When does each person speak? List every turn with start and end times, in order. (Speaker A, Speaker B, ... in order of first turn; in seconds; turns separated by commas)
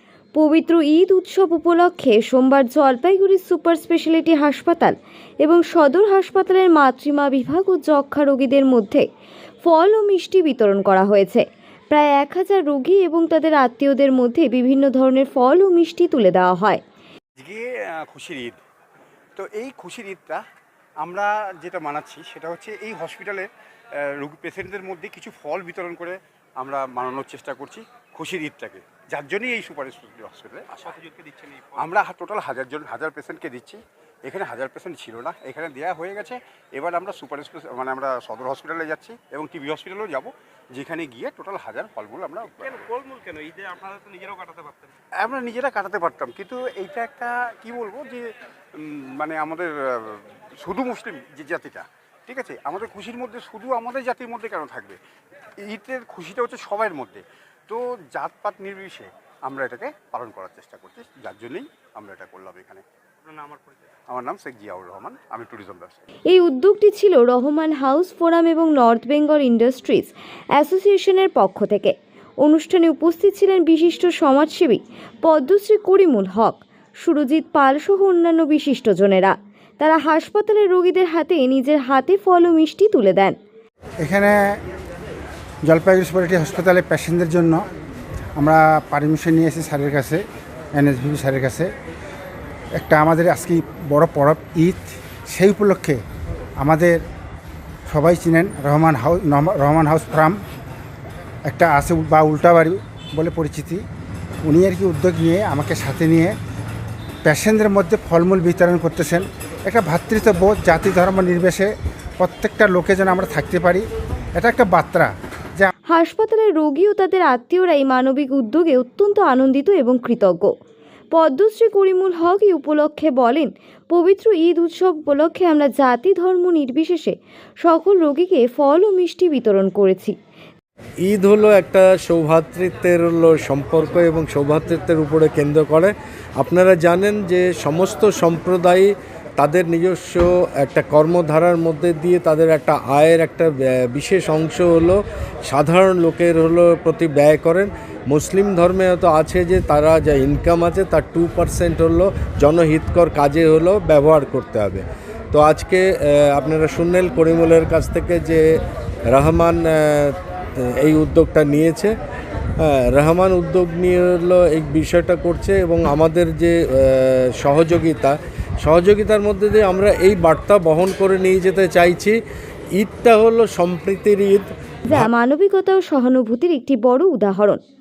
Speaker A: 0.4-9.1, Speaker A: 9.6-16.8, Speaker B: 17.4-18.6, Speaker B: 19.4-20.4, Speaker B: 21.0-31.0, Speaker C: 30.9-31.8, Speaker B: 31.8-42.9, Speaker C: 42.8-45.0, Speaker B: 45.2-48.2, Speaker B: 48.8-55.0, Speaker B: 55.6-62.8, Speaker C: 63.4-63.8, Speaker B: 64.1-66.0, Speaker A: 66.3-83.4, Speaker D: 84.0-84.5, Speaker D: 85.7-87.6, Speaker D: 88.4-90.2, Speaker D: 90.8-91.7, Speaker D: 92.8-96.0, Speaker D: 96.6-97.0, Speaker D: 97.9-100.4, Speaker D: 101.5-103.8, Speaker D: 104.5-106.3, Speaker D: 107.2-113.8, Speaker D: 114.4-115.7, Speaker A: 115.9-120.5, Speaker A: 121.1-130.2, Speaker E: 131.0-158.4, Speaker E: 159.1-161.9, Speaker E: 162.6-172.2, Speaker E: 172.8-175.1, Speaker A: 174.9-177.6